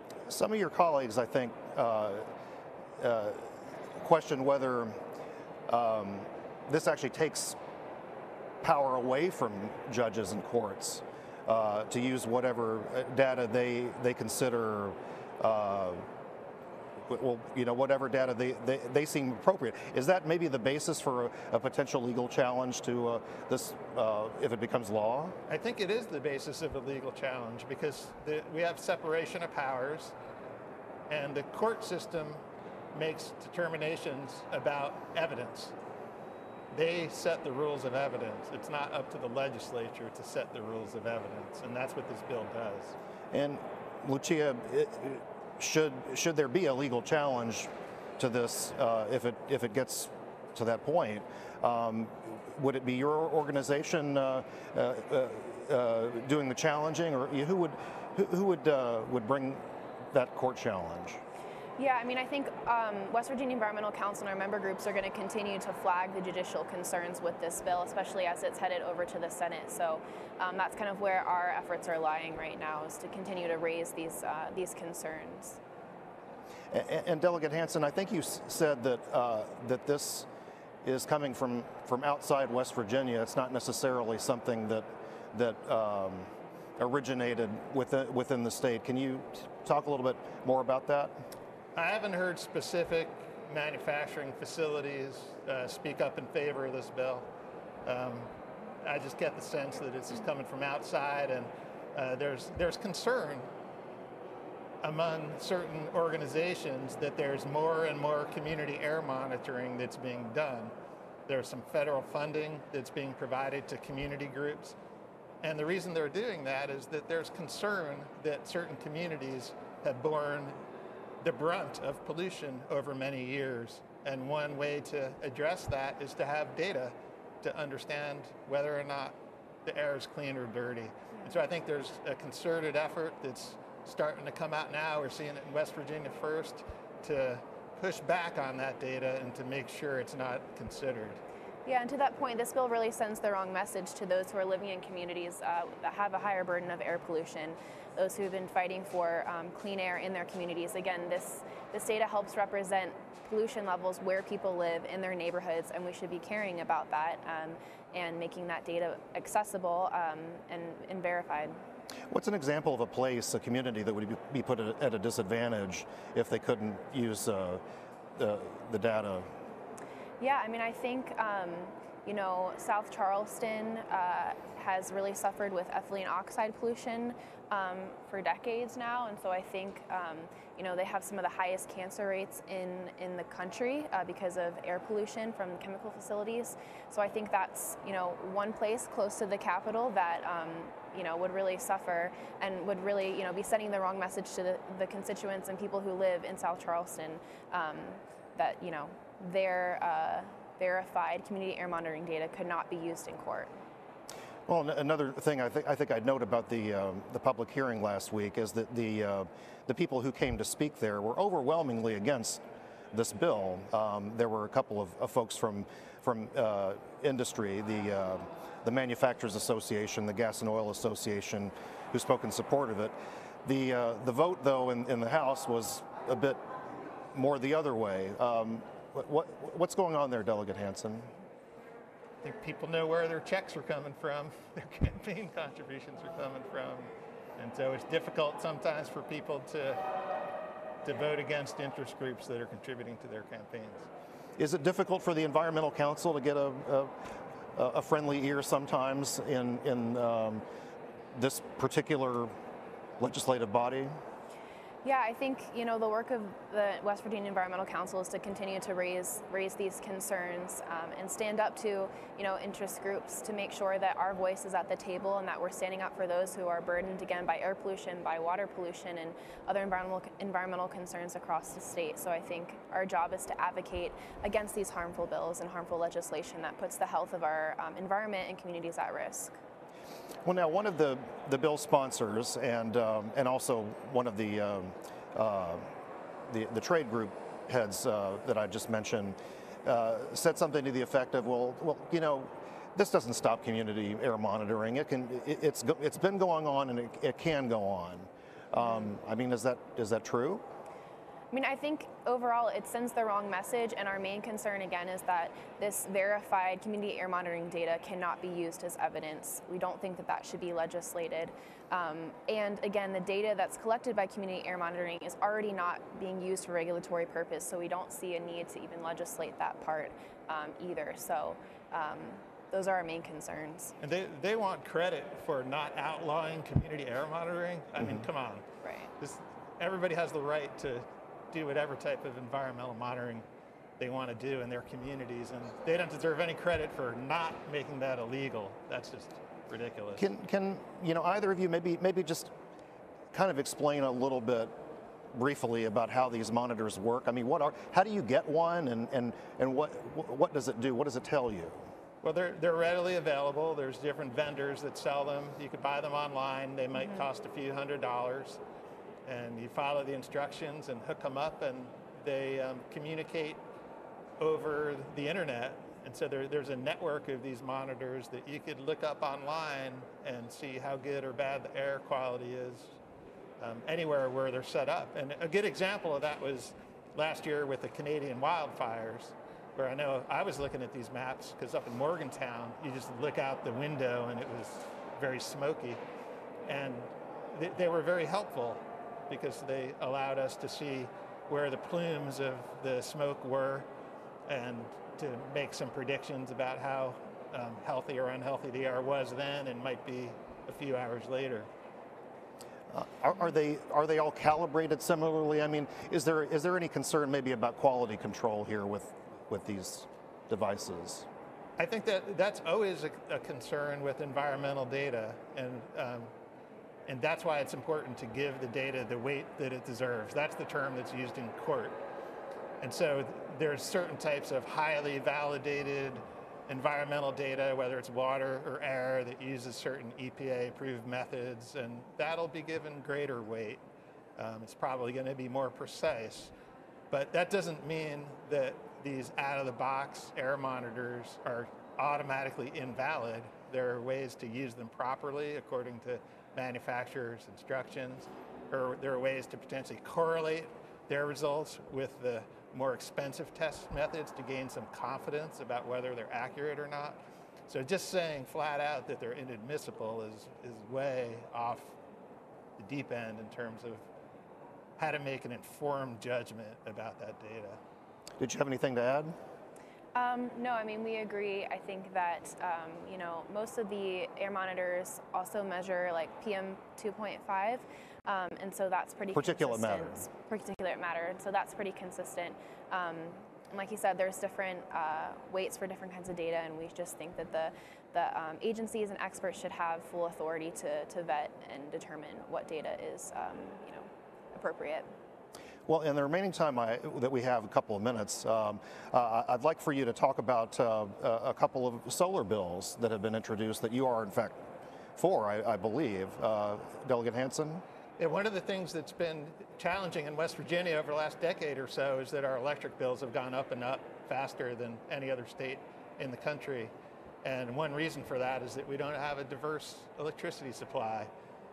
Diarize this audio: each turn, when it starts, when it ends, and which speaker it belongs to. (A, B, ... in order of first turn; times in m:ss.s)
0:00.3-0:02.3 A
0:03.0-0:05.0 A
0:05.7-0:07.6 A
0:08.6-0:16.0 A
0:17.0-0:25.4 A
0:25.5-0:30.1 B
0:31.1-0:32.4 B
0:32.9-0:35.7 B
0:36.7-0:42.9 B
0:43.3-1:01.2 A
1:01.8-1:15.6 C
1:16.7-1:20.3 A
1:20.8-1:31.2 A
1:31.7-1:37.3 B
1:37.8-1:38.3 B
1:38.8-1:43.5 B
1:44.8-1:50.7 B
1:51.3-1:54.8 B
1:55.4-2:00.6 B
2:01.2-2:21.2 B
2:21.6-2:41.6 C
2:42.1-2:47.6 A
2:48.2-2:49.3 A
2:50.2-3:23.5 C
3:24.5-3:46.4 A
3:47.1-3:51.1 A
3:52.2-3:59.8 B
4:00.8-4:03.9 B
4:04.4-4:06.9 A
4:07.5-4:10.4 A
4:11.1-4:12.3 A
4:13.0-4:13.9 A
4:14.8-4:39.4 C
4:40.2-4:45.7 A
4:46.3-5:00.4 A
4:58.6-4:58.9 C
5:01.3-5:23.7 C
5:23.8-5:28.4 B
5:28.6-5:28.9 C
5:29.0-5:33.2 B
5:33.8-5:40.0 B
5:40.0-5:42.3 A
5:43.1-5:51.7 A
5:52.0-5:58.4 B
5:56.7-5:57.0 C
5:59.0-6:03.4 B
6:04.2-6:12.8 B
6:13.4-6:25.8 B
6:26.4-6:33.7 B
6:34.3-6:41.5 B
6:42.7-6:51.1 A
6:51.6-6:56.1 B
6:56.9-7:01.8 B
7:02.6-7:13.6 B
7:14.2-7:16.3 B
7:16.9-7:41.8 B
7:42.6-7:43.8 B
7:44.8-7:47.6 B
7:48.2-7:49.1 A
7:49.9-8:14.9 C
7:59.1-8:00.0 A
8:15.7-8:24.4 A
8:25.0-8:27.6 A
8:28.0-8:41.1 B